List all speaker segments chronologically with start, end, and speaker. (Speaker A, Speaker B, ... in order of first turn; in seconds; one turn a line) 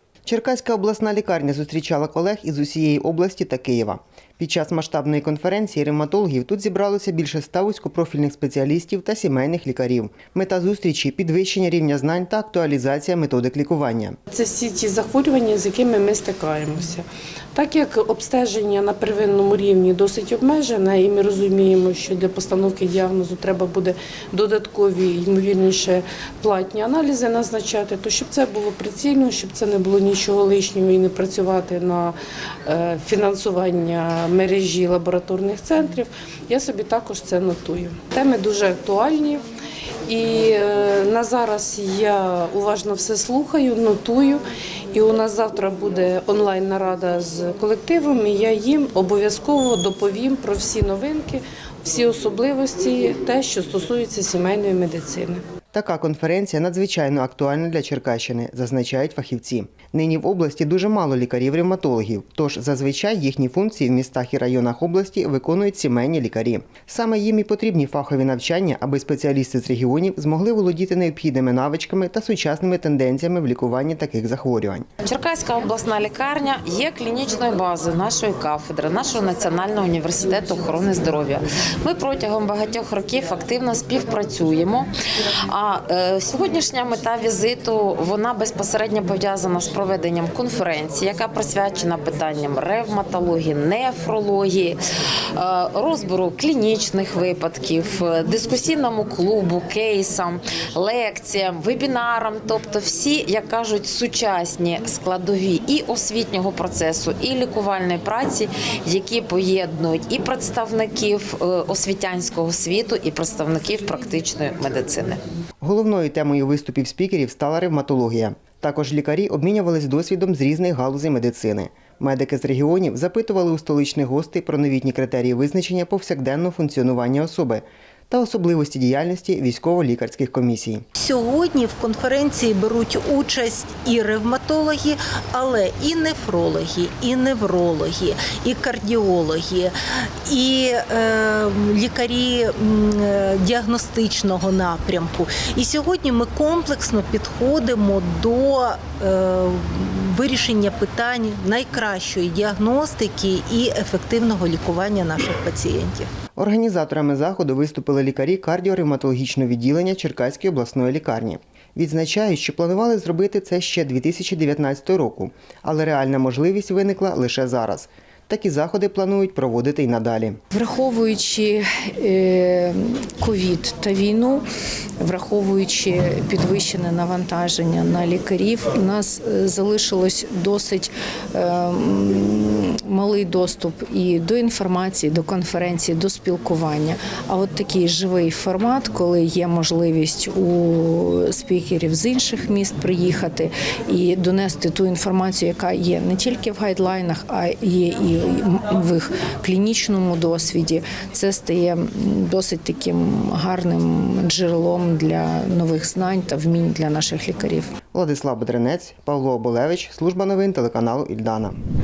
Speaker A: 0.3-14.2
Speaker B: 14.3-39.4
Speaker B: 40.1-44.4
Speaker B: 44.9-55.4
Speaker A: 55.7-74.9
Speaker C: 75.0-84.9
Speaker C: 85.5-94.8
Speaker C: 95.4-115.2
Speaker A: 115.6-130.8
Speaker D: 131.0-139.7
Speaker D: 140.3-156.1
Speaker A: 156.4-170.4
Speaker E: 170.5-174.4
Speaker E: 175.0-207.8
Speaker A: 207.9-211.6